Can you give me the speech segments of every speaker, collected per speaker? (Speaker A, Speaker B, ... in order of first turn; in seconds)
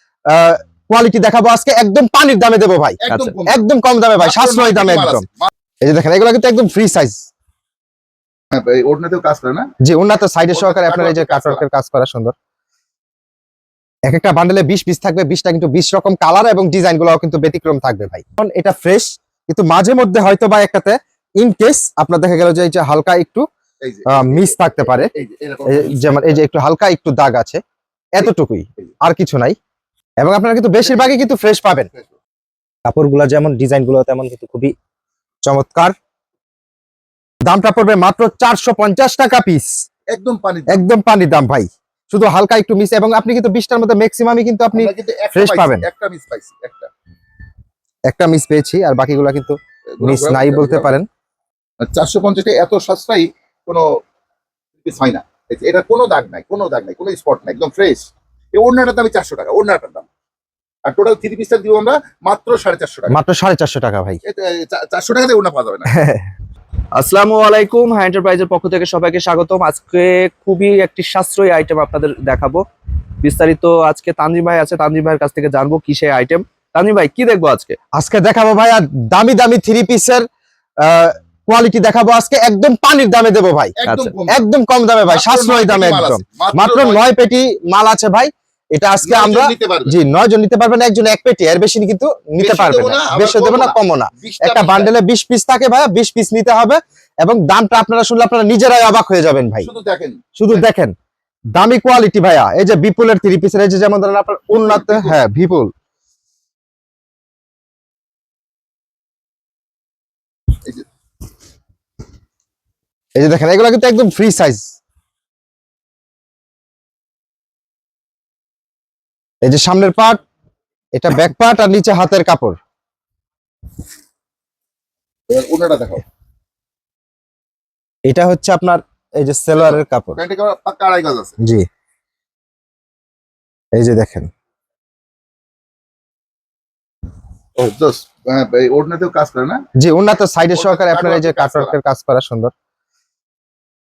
Speaker A: 0.3-5.3, 5.8-7.3, 9.8-12.3, 14.1-23.4, 24.1-25.1, 25.7-27.6, 28.2-29.6, 30.2-31.9, 32.9-34.7, 35.5-35.9, 37.4-39.7, 40.7-45.9, 48.1-51.1, 63.1-64.2, 65.9-66.3, 77.9-80.2, 80.8-83.7, 84.3-99.7, 100.4-100.9, 101.5-105.7, 113.2-114.8, 119.4-120.2, 121.0-122.6, 128.1-130.2, 131.4-131.7, 133.8-134.3, 139.8-142.5
Speaker B: 3.0-3.6, 4.2-5.5, 8.5-9.7, 10.5-11.7, 23.8-26.4, 30.8-31.3, 31.9-32.2, 40.1-40.8, 44.7-46.9, 50.0-50.9, 51.8-53.9, 54.8-58.0, 58.5-60.1, 60.9-63.2, 64.2-65.9, 83.8-84.5, 85.1-87.0, 89.0-90.0, 92.4-94.9, 99.6-100.7, 104.5-105.2, 125.3-126.0, 129.6-131.4, 137.6-139.6, 140.6-141.8
Speaker C: 67.0-72.6, 73.2-77.8, 83.9-84.1